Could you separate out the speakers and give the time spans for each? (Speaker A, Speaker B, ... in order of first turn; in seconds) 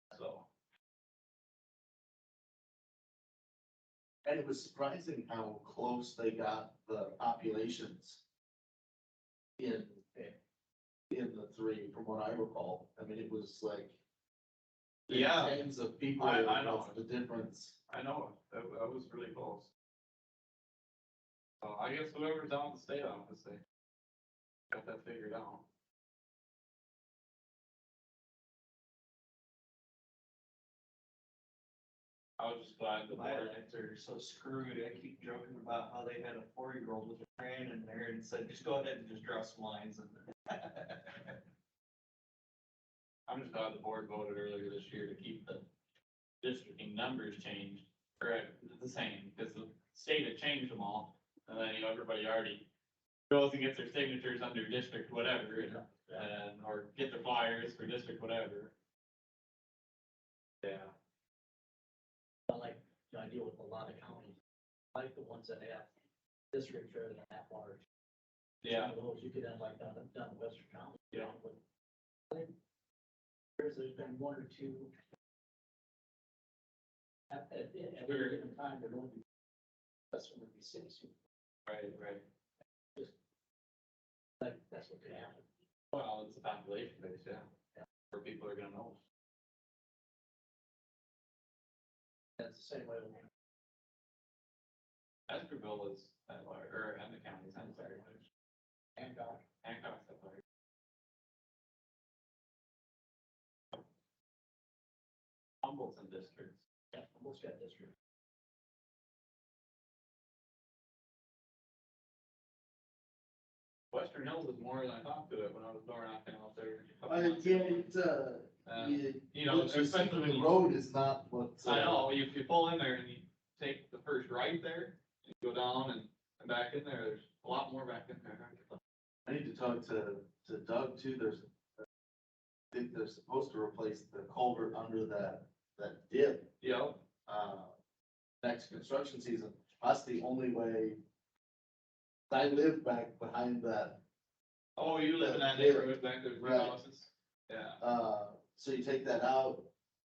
Speaker A: 0.1-0.5, 15.1-15.6, 16.2-17.0, 17.9-19.7, 21.6-23.6, 24.7-25.6, 32.4-33.6, 43.3-45.6, 46.4-52.7, 53.3-58.7, 60.6-60.9, 68.6-68.9, 78.0-78.4, 81.7-82.2, 85.9-87.5, 88.1-89.0, 95.3-98.2, 99.6-100.4, 105.6-106.6, 113.9-117.9, 118.7-120.6, 121.6-128.8, 136.6-137.0, 144.8-147.8
Speaker B: 4.2-8.2, 9.6-10.3, 11.1-14.0, 15.1-17.8, 117.0-122.1, 129.3-131.6, 132.7-136.5, 137.3-137.7, 138.4-141.0, 142.3-144.0, 145.2-146.8, 147.8-149.7
Speaker C: 33.1-41.4
Speaker D: 55.7-56.2, 62.5-64.4, 64.9-65.9, 66.5-67.8, 68.7-71.6, 73.6-74.9, 77.3-79.2, 80.1-81.1, 84.4-85.5, 92.4-93.3, 97.6-98.0, 99.0-99.5, 106.9-107.9